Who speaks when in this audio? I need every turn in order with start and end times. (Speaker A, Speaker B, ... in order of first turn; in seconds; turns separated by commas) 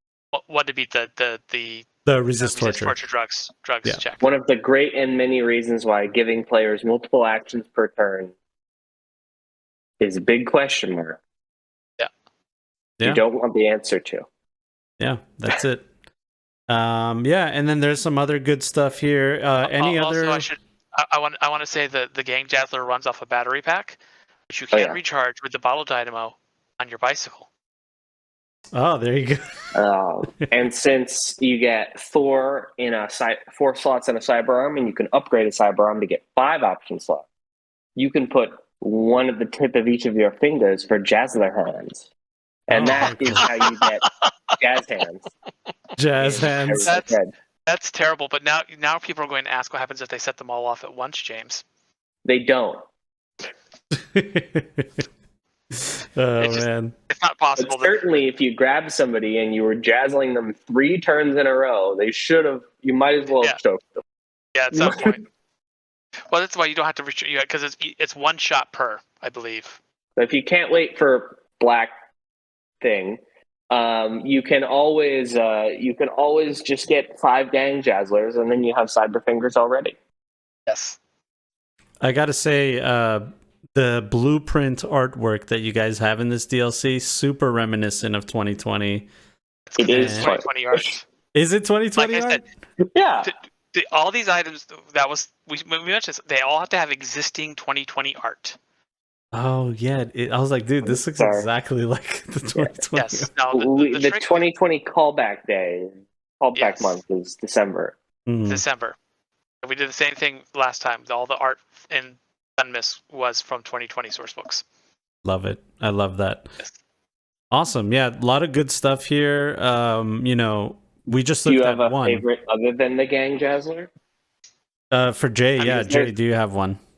Speaker A: 0.3-4.3, Speaker B: 2.0-3.0, Speaker C: 4.2-8.3, Speaker C: 10.0-11.2, Speaker C: 13.0-14.2, Speaker B: 15.0-15.9, Speaker B: 16.7-20.5, Speaker A: 19.6-27.5, Speaker C: 24.7-25.0, Speaker B: 28.7-29.4, Speaker C: 29.7-37.2, Speaker C: 38.0-42.0, Speaker C: 42.7-45.3, Speaker B: 42.7-43.4, Speaker A: 42.8-44.1, Speaker B: 46.0-46.9, Speaker C: 46.2-47.3, Speaker A: 46.8-51.6, Speaker C: 52.2-52.8, Speaker B: 53.9-55.0, Speaker B: 55.7-56.9, Speaker A: 56.4-58.0, Speaker C: 57.6-64.0, Speaker A: 64.5-65.3, Speaker C: 64.7-65.1, Speaker A: 66.3-69.8, Speaker C: 70.2-71.9, Speaker C: 72.8-73.2, Speaker C: 73.7-79.9, Speaker A: 80.7-81.0, Speaker B: 82.0-89.1, Speaker A: 89.7-91.0, Speaker C: 89.8-91.0, Speaker B: 89.9-90.4, Speaker B: 91.3-92.4, Speaker A: 92.0-92.4, Speaker C: 92.9-93.3, Speaker A: 93.2-98.6, Speaker B: 99.3-103.3, Speaker C: 100.8-101.5, Speaker A: 102.9-104.5, Speaker C: 103.5-107.9, Speaker A: 106.5-107.0, Speaker B: 108.2-108.6, Speaker A: 108.5-109.0, Speaker A: 109.6-114.6, Speaker B: 115.2-116.5, Speaker B: 117.5-122.2, Speaker C: 121.5-123.9, Speaker B: 124.9-126.8, Speaker C: 125.6-126.1